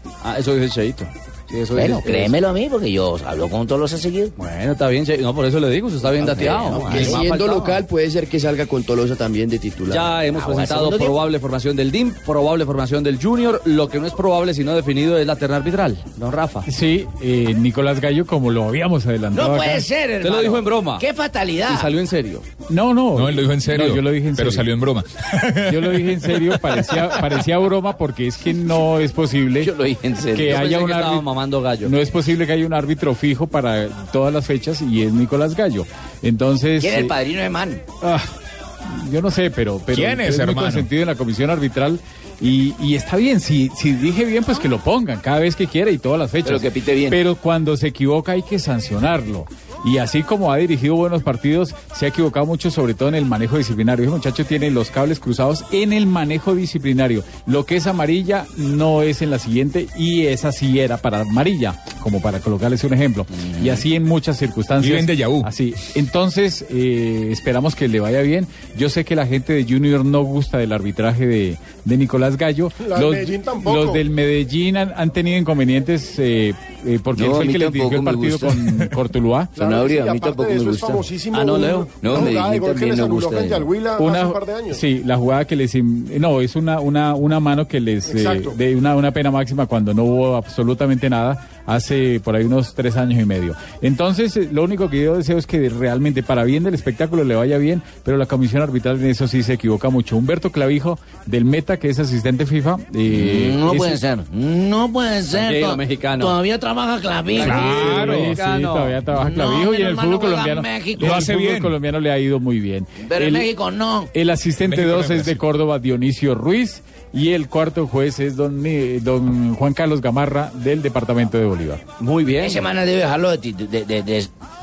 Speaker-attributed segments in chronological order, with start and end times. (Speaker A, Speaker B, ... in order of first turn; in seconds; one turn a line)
Speaker A: 0.2-2.4
Speaker B: 1.7-4.3
Speaker A: 4.4-7.8
Speaker B: 6.1-7.3
Speaker C: 6.9-10.2
Speaker A: 9.9-16.6
Speaker B: 10.3-11.2
Speaker D: 16.6-19.8
Speaker B: 19.3-21.9
Speaker A: 20.2-21.0
Speaker A: 21.7-22.4
Speaker D: 22.7-24.7
Speaker E: 23.1-26.3
Speaker D: 25.7-29.7
Speaker B: 29.6-30.6
Speaker D: 30.3-31.2
Speaker A: 30.4-31.9
Speaker D: 31.8-37.1
Speaker B: 36.8-37.8
Speaker D: 38.0-38.3
Speaker D: 38.8-79.6
Speaker E: 39.9-40.9
Speaker B: 46.4-47.2
Speaker B: 63.3-63.8
Speaker E: 64.8-65.5
Speaker F: 72.8-74.0
Speaker B: 77.2-78.5
Speaker F: 79.5-84.8
Speaker B: 79.6-81.0
Speaker A: 81.3-82.0
Speaker B: 82.0-83.7
Speaker D: 84.0-104.0
Speaker F: 88.0-88.5
Speaker B: 103.0-107.8
Speaker A: 105.3-106.4
Speaker A: 107.3-109.0
Speaker E: 107.4-108.3
Speaker D: 107.4-113.5
Speaker B: 109.1-111.2
Speaker E: 111.0-111.7
Speaker B: 113.0-114.1
Speaker D: 114.1-121.8
Speaker E: 114.6-115.4
Speaker A: 122.0-122.7
Speaker B: 122.4-124.3